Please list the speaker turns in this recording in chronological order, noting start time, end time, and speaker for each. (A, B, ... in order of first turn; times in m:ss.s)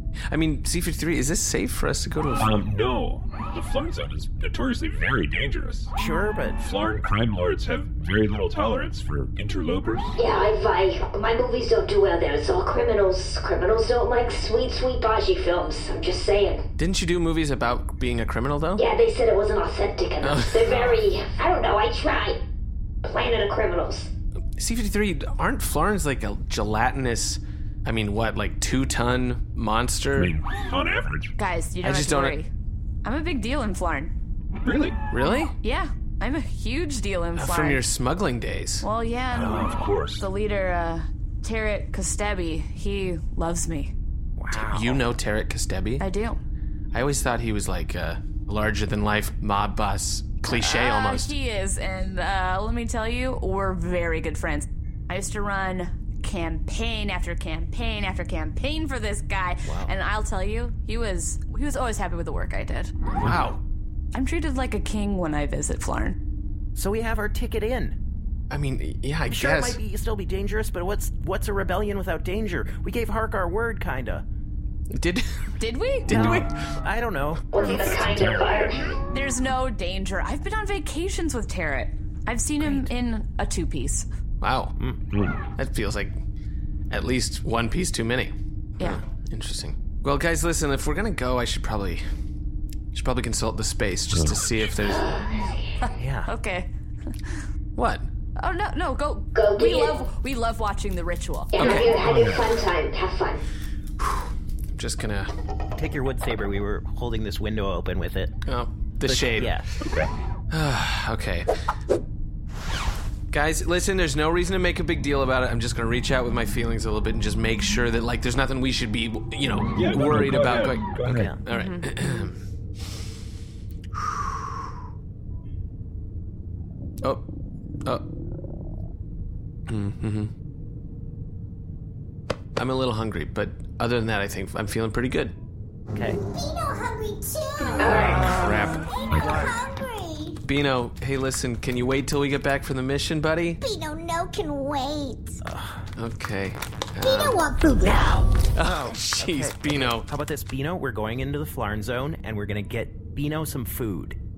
0:00.3-0:02.6 A
0:02.4-0:05.9 B
0:06.0-0:06.6 C
0:06.6-0:10.2 B
0:10.2-0:16.7 D
0:16.8-0:18.9 A
0:18.8-0:22.4 D
0:20.2-0:21.0 A
0:23.0-0:24.1 D
0:24.6-0:30.3 A
0:30.1-0:31.3 B
0:31.4-0:32.5 E
0:31.8-0:32.4 A
0:33.0-0:34.1 E
0:34.6-0:35.0 B
0:35.1-0:35.5 A
0:35.6-0:37.9 E
0:37.4-0:38.9 A
0:38.8-0:43.9 E
0:39.3-0:40.2 B
0:44.4-0:45.0 C
0:44.5-0:46.1 A
0:46.0-0:46.4 E
0:46.9-0:51.4 A
0:50.5-1:02.9 E
0:59.6-0:59.9 C
1:03.2-1:03.6 A
1:04.1-1:06.2 E
1:06.8-1:08.0 C
1:08.5-1:09.8 A
1:09.3-1:14.2 C
1:14.9-1:15.5 A
1:15.6-1:16.5 E
1:16.1-1:16.5 A
1:16.1-1:18.1 C
1:17.5-1:19.0 D
1:17.6-1:18.0 E
1:18.0-1:18.6 B
1:19.1-1:24.1 E
1:22.6-1:22.9 A
1:24.4-1:24.8 A
1:25.1-1:25.4 B
1:25.6-1:26.2 A
1:26.9-1:32.0 A
1:32.9-1:35.1 A
1:34.1-1:34.7 B
1:34.8-1:35.7 D
1:35.8-1:37.4 E
1:36.0-1:36.3 C
1:37.8-1:38.1 A
1:38.4-1:41.9 E
1:39.3-1:40.1 D
1:41.5-1:43.4 D
1:41.6-1:42.0 A
1:41.8-1:42.5 B
1:44.7-1:45.3 A
1:45.8-1:48.3 C
1:48.5-1:49.6 A
1:49.0-1:49.7 C
1:49.8-1:50.1 B
1:50.5-1:51.5 A
1:53.3-2:02.4 A
1:59.8-2:01.3 B
2:01.0-2:01.4 C
2:01.5-2:02.2 E
2:09.7-2:10.3 A
2:12.6-2:15.4 A
2:15.9-2:16.2 C
2:16.3-2:20.4 F
2:17.8-2:18.6 D
2:17.8-2:18.9 A
2:17.9-2:18.4 C
2:19.2-2:19.5 C
2:20.4-2:23.6 A
2:23.6-2:25.4 F
2:25.4-2:25.8 C
2:26.0-2:28.0 A
2:27.0-2:28.3 F
2:28.5-2:30.1 A
2:28.6-2:34.2 C